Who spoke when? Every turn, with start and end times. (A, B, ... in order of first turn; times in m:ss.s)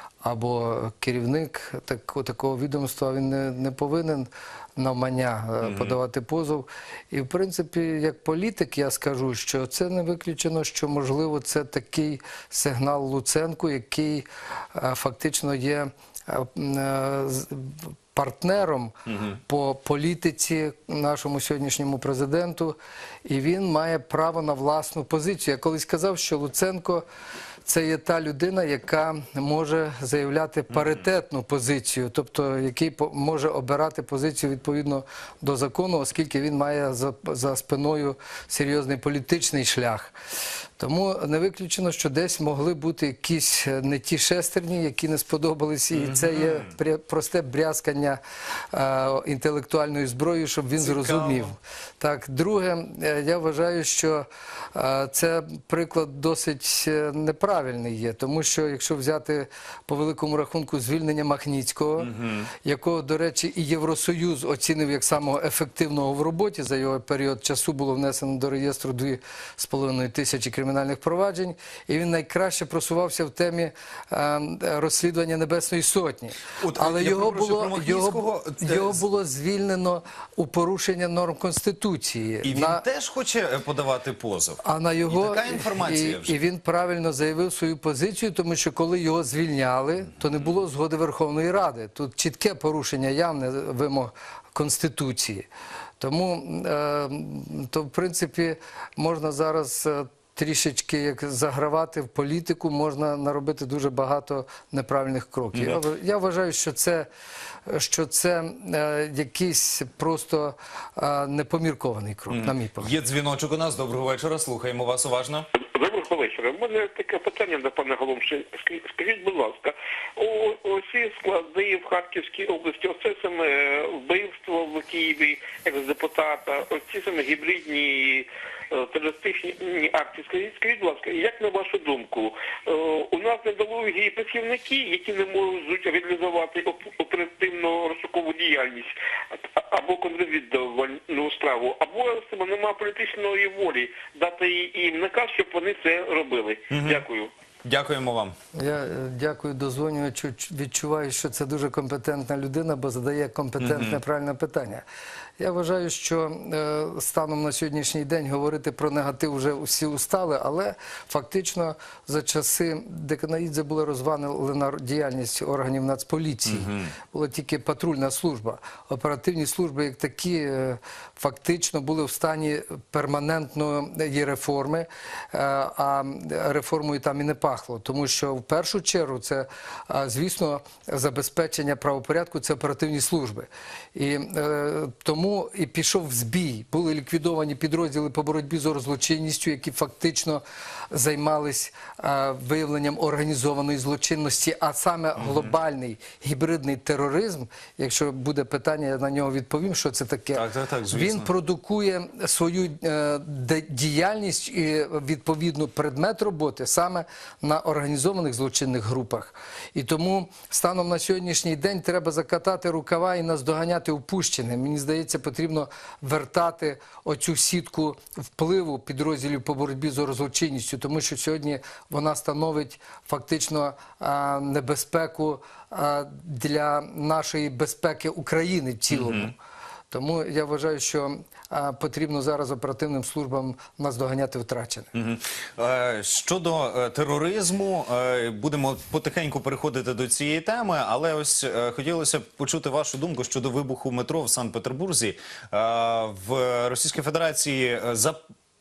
0:00.2-0:27.0 A
0:05.6-0:06.0 B
0:27.7-0:40.2 A
0:40.8-0:48.2 A
0:45.9-0:46.7 B
0:48.7-1:22.8 A
0:50.8-0:51.5 B
1:02.0-1:02.5 B
1:16.6-1:19.0 B
1:22.4-1:26.4 B
1:24.6-1:35.5 A
1:36.0-1:47.1 A
1:47.7-1:52.9 A
1:52.3-1:55.5 B
1:55.6-2:27.3 C
2:26.7-2:27.0 B
2:27.6-2:28.4 B
2:28.5-2:34.8 A
2:33.6-2:34.0 B
2:35.4-3:49.4 A
2:46.5-2:46.9 B
3:15.2-3:15.5 B
3:20.3-3:21.3 B
3:48.9-3:49.3 B
3:49.9-3:54.9 A
3:54.9-4:08.2 B